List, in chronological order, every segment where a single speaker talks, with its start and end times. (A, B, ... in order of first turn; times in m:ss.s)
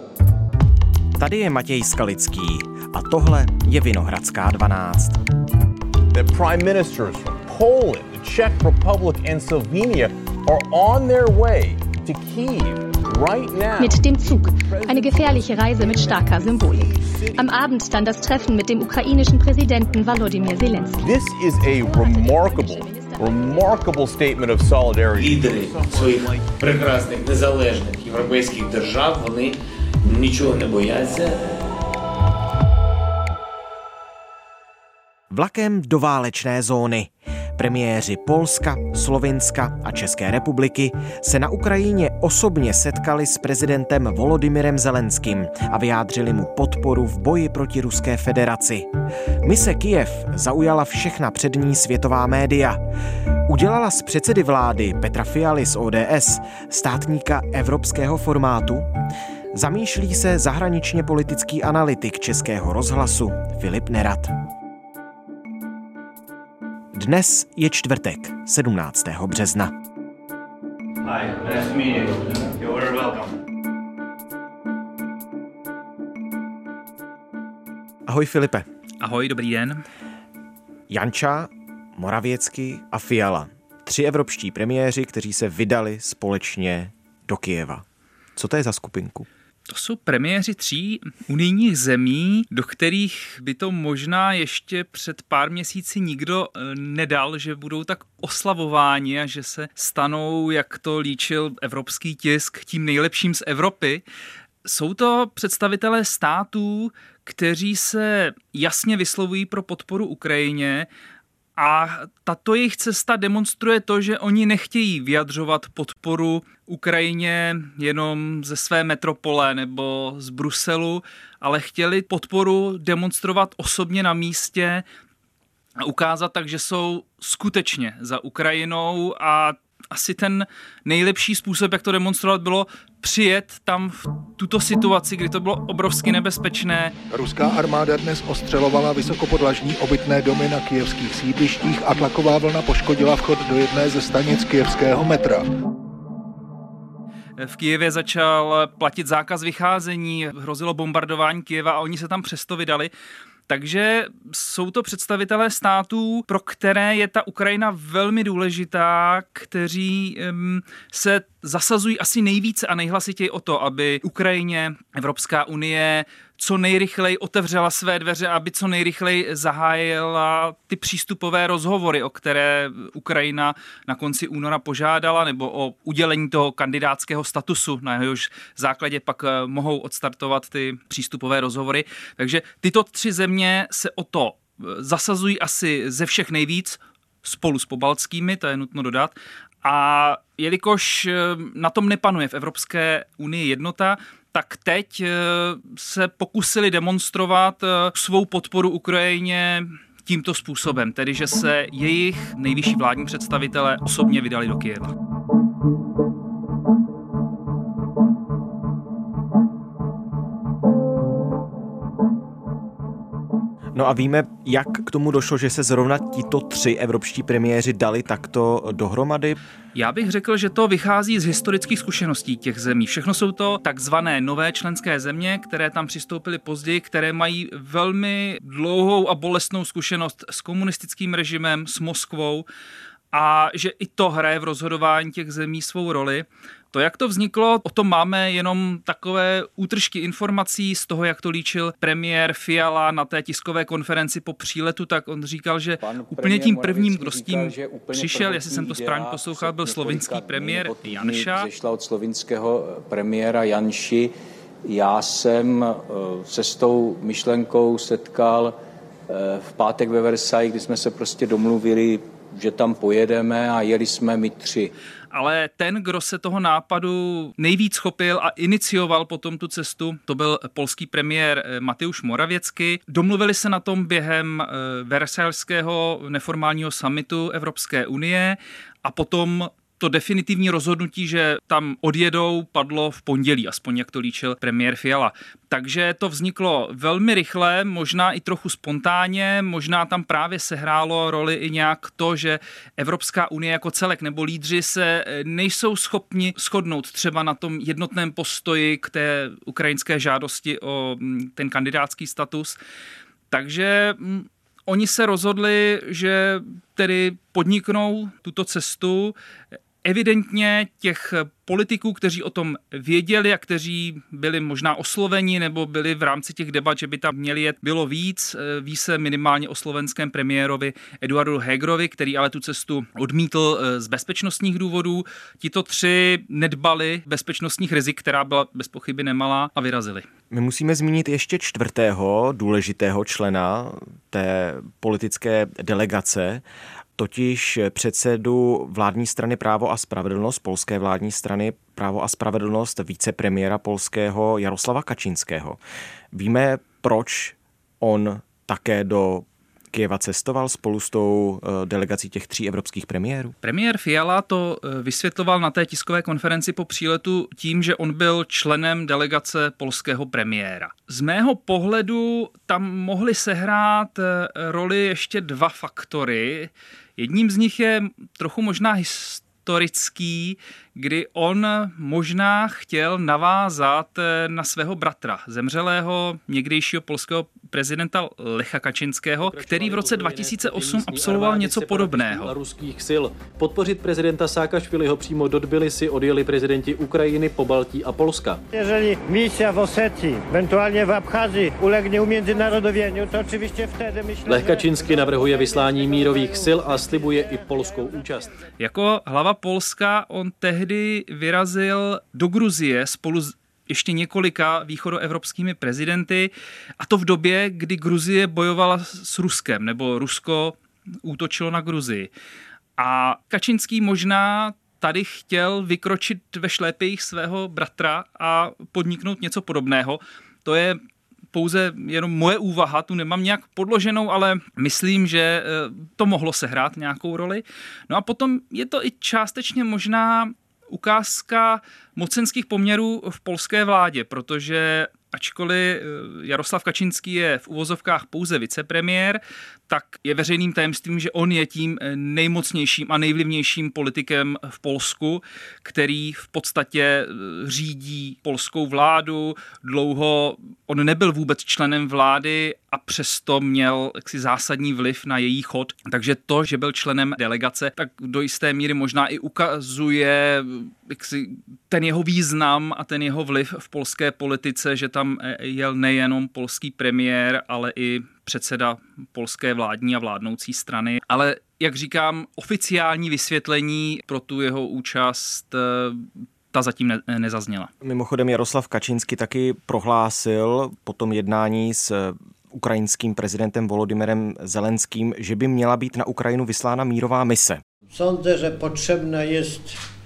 0:01.2-0:05.2 A
0:06.1-0:17.6 B
0:13.8-0:21.1 C
0:18.1-0:18.5 B
0:19.9-0:26.6 B
0:21.6-0:23.8 C
0:25.1-0:31.4 D
0:35.3-0:48.9 A
0:49.4-0:52.8 A
0:53.5-0:58.9 A
0:59.5-1:04.3 A
1:06.9-1:09.7 A
1:11.0-1:13.3 E
1:18.0-1:18.6 A
1:19.0-1:19.8 E
1:20.9-1:27.8 A
1:28.4-1:29.3 A
1:29.7-1:44.0 E
1:44.6-1:50.9 E
1:51.6-2:04.8 E
2:05.8-2:16.9 E
2:17.1-2:25.4 F
2:27.4-2:32.9 E
2:33.5-3:24.9 E
3:33.7-3:39.4 A
3:39.7-3:52.4 E
3:53.1-4:11.5 E
4:05.8-4:14.1 G
4:14.6-4:18.6 G
4:19.1-4:24.7 G
4:25.1-5:02.6 E
5:03.3-5:09.1 E
5:09.8-5:30.1 E
5:30.3-5:36.4 A
5:37.0-5:45.6 A
5:46.1-5:53.3 A
5:53.4-6:22.3 E
6:19.3-6:28.4 H
6:28.5-6:38.2 I
6:34.2-6:38.3 H
6:38.6-6:52.1 E
6:52.8-7:00.8 E
7:01.3-7:57.7 E
7:57.8-8:07.6 A
8:07.9-8:09.8 I